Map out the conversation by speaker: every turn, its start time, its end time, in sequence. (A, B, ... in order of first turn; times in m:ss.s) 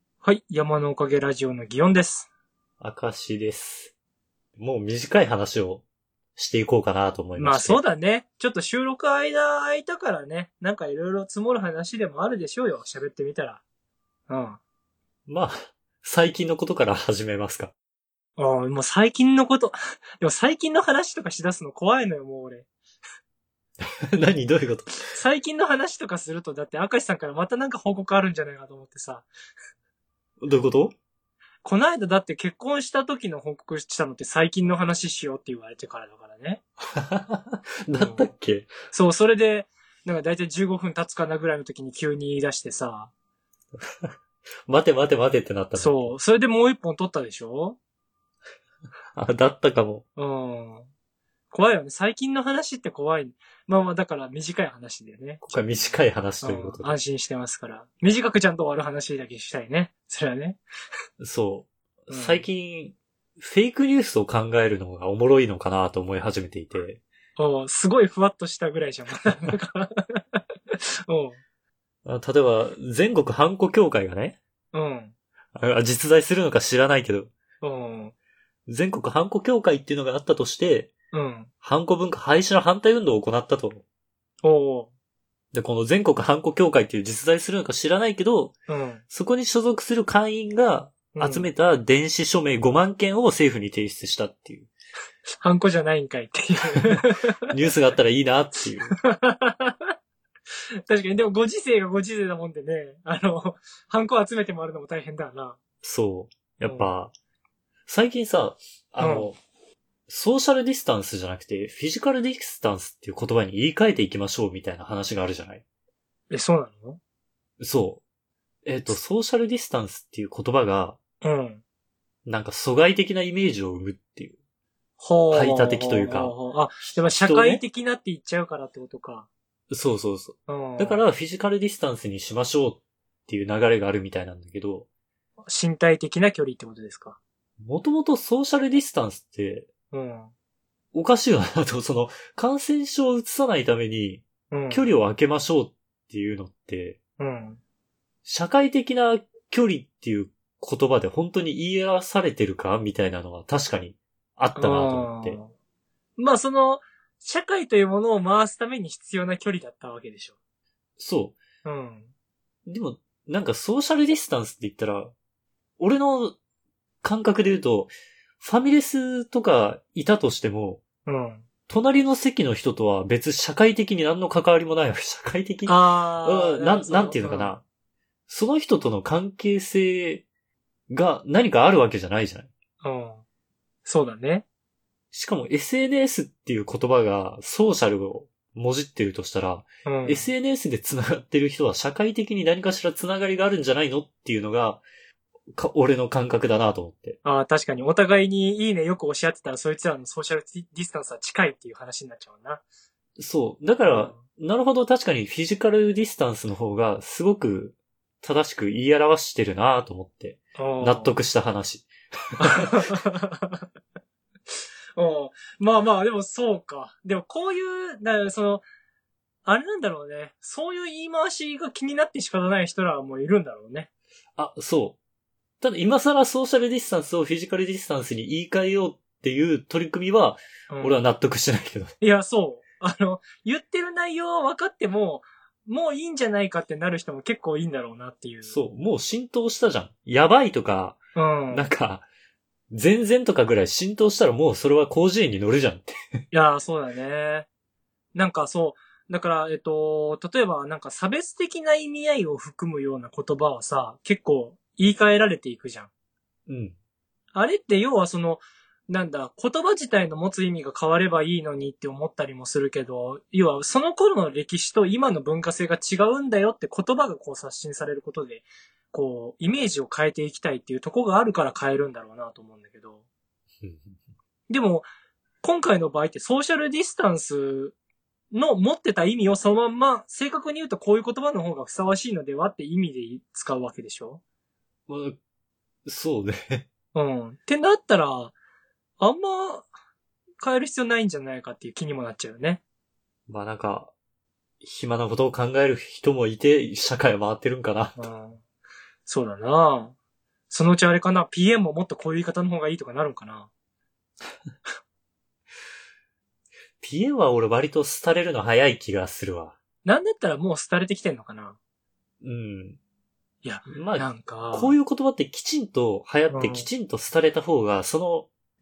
0:00.2-0:02.3 A
0:02.8-0:03.9 B
0:04.6-0:05.8 B
0:06.4-0:07.8 B
0:07.4-0:13.6 A
0:14.3-0:14.6 A
0:15.3-0:17.7 B
0:18.4-0:22.7 A
0:23.8-0:25.2 B
0:25.1-0:29.3 A
0:30.4-0:31.0 B
0:31.6-0:36.6 A
0:37.0-0:38.7 B
0:37.9-0:38.3 A
0:38.9-0:43.1 A
0:43.8-0:44.1 B
0:44.7-0:46.2 B
0:45.8-0:47.8 A
0:49.2-0:50.0 B
0:50.2-0:50.9 A
0:51.5-1:00.6 A
0:55.4-0:57.0 B
1:01.2-1:07.0 B
1:02.1-1:02.4 A
1:07.4-1:11.4 A
1:12.0-1:14.4 B
1:14.7-1:15.1 A
1:15.6-1:17.3 B
1:17.6-1:18.1 A
1:18.7-1:20.9 B
1:21.1-1:21.5 A
1:21.6-1:23.8 B
1:24.4-1:24.9 A
1:25.5-1:28.6 B
1:28.7-1:29.0 A
1:29.1-1:34.7 B
1:31.1-1:31.5 A
1:35.4-1:37.3 A
1:36.8-1:39.0 B
1:39.1-1:39.8 A
1:40.9-1:45.6 A
1:45.8-1:47.1 B
1:46.6-1:46.9 A
1:47.9-1:49.4 B
1:49.0-1:49.3 A
1:50.1-1:55.6 B
1:56.3-1:57.0 A
1:57.6-1:58.0 B
1:58.6-2:01.0 B
2:01.2-2:01.6 A
2:02.2-2:04.3 B
2:05.0-2:09.3 A
2:05.3-2:06.3 B
2:06.9-2:07.6 B
2:09.7-2:14.9 B
2:10.5-2:11.0 A
2:15.5-2:17.2 A
2:17.6-2:19.7 B
2:19.9-2:20.3 A
2:20.9-2:27.0 B
2:24.5-2:24.9 A
2:27.2-2:27.6 A
2:28.2-2:35.4 B
2:34.6-2:35.5 A
2:36.2-2:40.3 A
2:41.0-2:41.4 B
2:41.6-2:42.1 A
2:42.7-2:45.1 B
2:45.8-2:46.4 B
2:47.0-2:50.8 B
2:51.1-2:51.5 A
2:51.7-2:57.6 B
2:55.7-2:57.5 A
2:58.3-3:00.2 B
3:00.9-3:02.5 B
3:02.8-3:03.2 A
3:03.8-3:04.4 A
3:05.1-3:14.8 B
3:09.9-3:10.3 A
3:15.6-3:17.2 B
3:17.2-3:22.6 A
3:23.2-3:31.9 B
3:23.9-3:24.2 A
3:30.6-3:31.2 A
3:32.4-3:33.6 A
3:32.5-3:32.8 B
3:35.0-3:38.6 A
3:39.4-3:43.9 A
3:44.4-3:45.0 B
3:45.6-3:51.9 B
3:50.7-3:51.0 A
3:52.0-3:58.6 A
3:58.4-4:01.0 B
4:01.2-4:01.7 A
4:01.5-4:02.1 B
4:02.7-4:06.0 B
4:06.3-4:07.5 A
4:08.1-4:15.9 A
4:16.5-4:16.8 B
4:17.3-4:33.0 A
4:33.6-4:34.0 B
4:34.5-4:34.9 A
4:35.4-4:37.8 A
4:38.3-4:44.2 A
4:44.9-4:45.2 B
4:45.8-4:46.7 B
4:46.9-4:48.3 A
4:49.0-4:49.7 A
4:50.4-4:52.6 A
4:53.3-4:53.9 B
4:54.6-4:58.0 B
4:58.0-4:58.4 A
4:59.1-4:59.9 A
5:00.5-5:03.5 A
5:06.8-5:09.6 B
5:09.8-5:11.6 A
5:12.2-5:12.8 B
5:13.4-5:14.8 A
5:13.7-5:18.3 B
5:16.3-5:16.7 A